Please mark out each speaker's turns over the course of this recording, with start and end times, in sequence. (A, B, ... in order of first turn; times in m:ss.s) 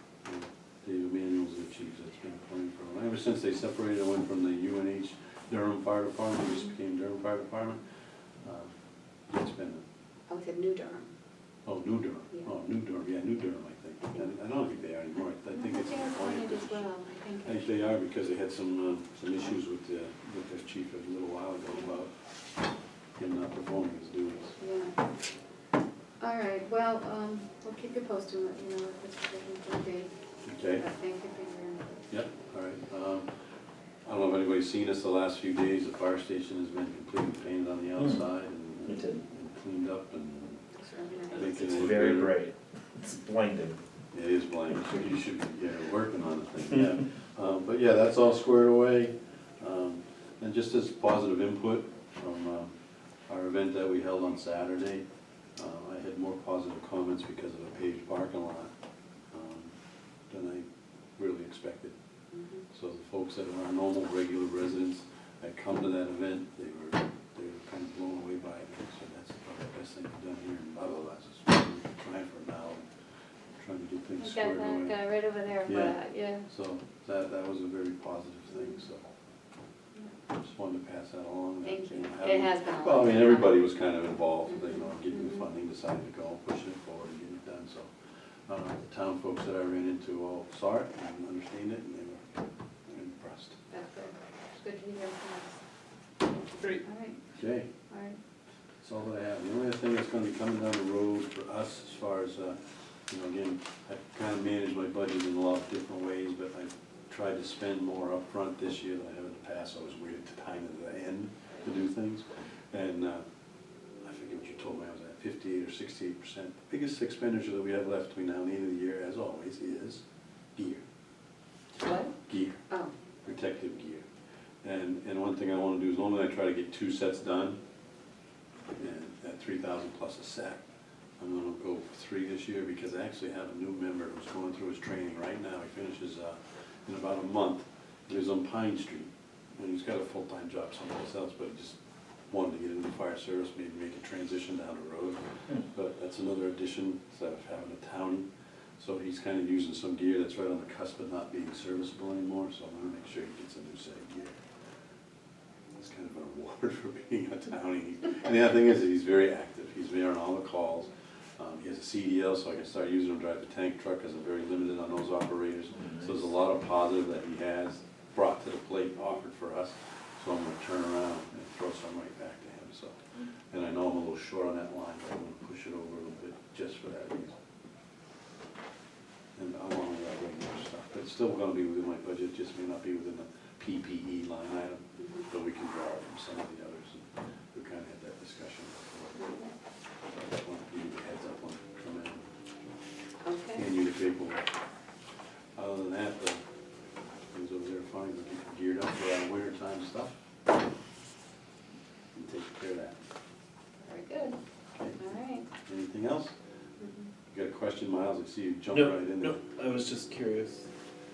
0:00.2-0:07.8 A
0:08.4-0:08.7 A
0:09.3-0:09.8 A
0:10.3-0:11.1 B
0:11.7-0:16.9 A
0:14.0-0:14.3 B
0:15.6-0:17.6 B
0:17.4-0:22.1 A
0:23.2-0:24.6 A
0:24.6-0:24.9 B
0:26.2-0:30.1 B
0:30.4-0:30.9 A
0:30.8-0:32.0 B
0:32.1-0:33.3 A
0:34.0-0:40.6 A
0:38.0-0:38.2 C
0:38.8-0:39.2 C
0:40.8-0:41.7 B
0:41.3-0:42.4 A
0:41.5-0:43.8 C
0:44.1-0:52.7 A
0:53.3-0:55.0 A
0:55.6-0:58.7 A
0:59.3-0:59.8 A
1:00.3-1:00.7 A
1:01.2-1:02.0 A
1:02.3-1:02.6 B
1:02.7-1:12.8 A
1:13.6-1:15.0 A
1:14.2-1:16.5 B
1:15.7-1:19.0 A
1:20.3-1:27.9 A
1:21.6-1:23.6 B
1:28.5-1:32.3 A
1:32.9-1:33.6 A
1:33.7-1:35.6 B
1:36.8-1:37.2 B
1:37.4-1:37.7 A
1:37.9-1:38.2 B
1:38.8-1:42.6 A
1:43.1-1:53.2 A
1:54.0-2:00.0 A
2:00.6-2:00.8 A
2:01.8-2:02.1 B
2:02.3-2:02.6 A
2:03.2-2:04.0 A
2:04.6-2:07.6 A
2:08.8-2:10.6 A
2:11.2-2:21.8 A
2:22.3-2:28.3 A
2:28.8-2:34.4 A
2:35.8-2:53.0 A
2:45.8-2:46.3 C
2:53.5-2:57.4 A
2:59.4-3:09.3 A
3:05.0-3:05.3 B
3:09.2-3:09.5 B
3:10.1-3:12.3 A
3:13.2-3:13.6 B
3:13.6-3:14.4 A
3:15.6-3:16.4 A
3:17.3-3:20.2 A
3:22.1-3:23.0 A
3:23.8-3:24.4 B
3:24.8-3:26.3 A
3:25.0-3:25.5 B
3:26.8-3:27.1 B
3:27.3-3:29.4 A
3:28.7-3:30.7 C